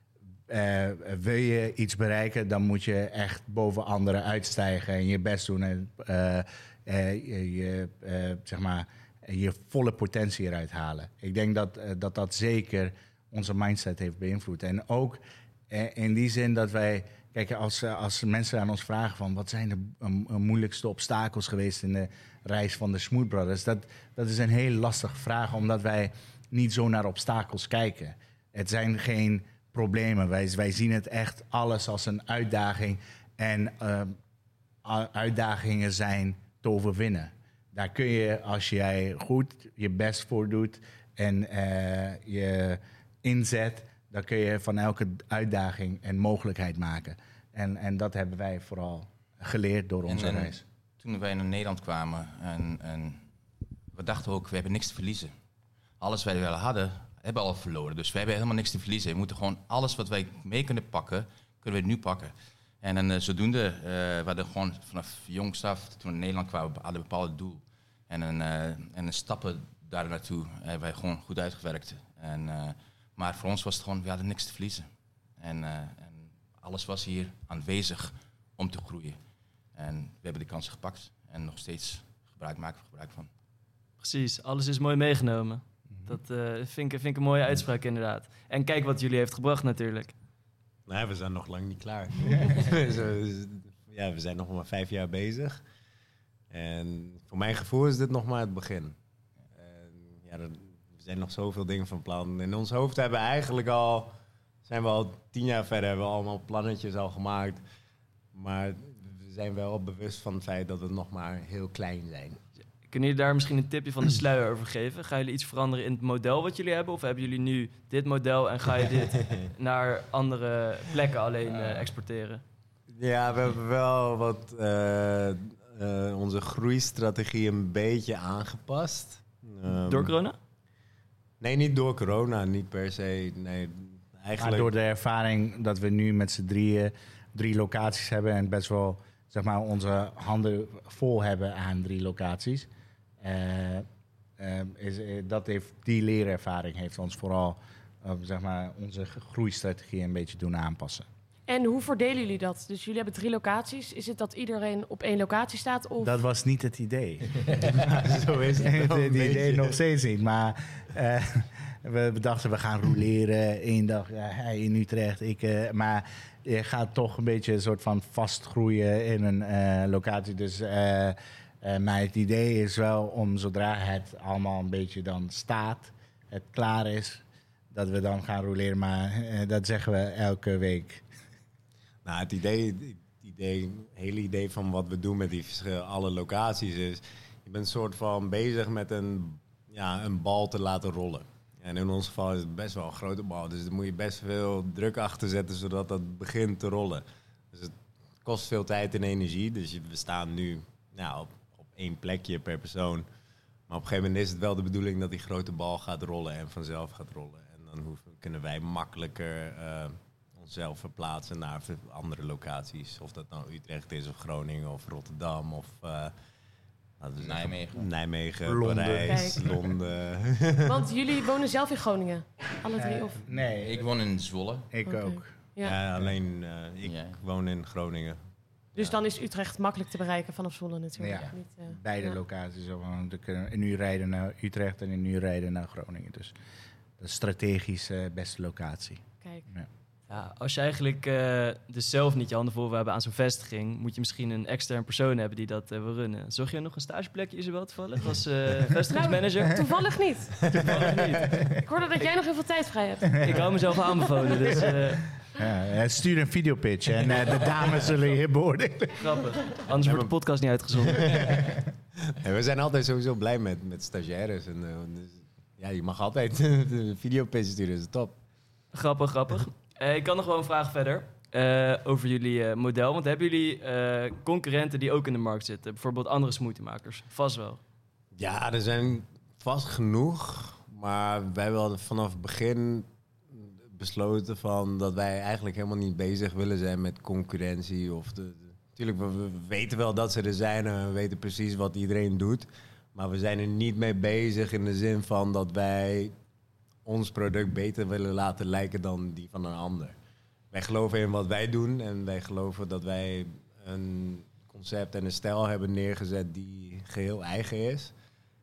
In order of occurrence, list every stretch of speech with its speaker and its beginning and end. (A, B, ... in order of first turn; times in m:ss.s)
0:00.5-0:34.2 A
0:34.8-0:50.6 A
0:50.0-0:53.3 B
0:53.9-0:55.3 B
0:56.0-1:19.2 B
1:19.7-1:23.3 B
1:24.0-1:30.1 C
1:30.9-1:35.6 D
1:36.5-1:39.0 D
1:39.5-1:44.1 D
1:44.6-1:47.6 D
1:48.3-1:52.4 D
1:52.9-2:02.4 C
2:02.9-2:10.1 D
2:09.9-2:10.4 C
2:11.4-2:14.7 D
2:14.4-2:22.7 A
2:23.2-2:23.8 A
2:24.4-2:31.0 A
2:31.5-2:36.1 E
2:36.0-3:01.0 A
2:37.8-2:39.8 D
3:02.0-3:23.0 D
3:23.7-3:36.1 D
3:37.0-3:40.9 D
3:37.2-3:37.9 B
3:38.4-3:39.5 A
3:39.1-3:39.4 E
3:40.6-3:43.2 E
3:42.8-3:43.8 A
3:43.6-3:44.7 B
3:44.7-3:45.4 A
3:44.9-3:45.8 E
3:45.6-3:48.2 D
3:46.8-3:47.2 B
3:48.8-3:52.2 E
3:51.0-3:56.3 A
3:57.0-3:59.7 A
4:00.1-4:09.6 C
4:08.9-4:10.4 E
4:10.5-4:11.0 D
4:10.5-4:12.1 C
4:11.6-4:13.5 E
4:13.2-4:15.0 C
4:15.3-4:19.2 A
4:19.0-4:21.5 C
4:19.8-4:20.1 D
4:20.9-4:28.2 D
4:28.7-4:37.6 C
4:38.1-4:56.1 D
4:56.8-5:00.0 D
5:00.5-5:07.9 D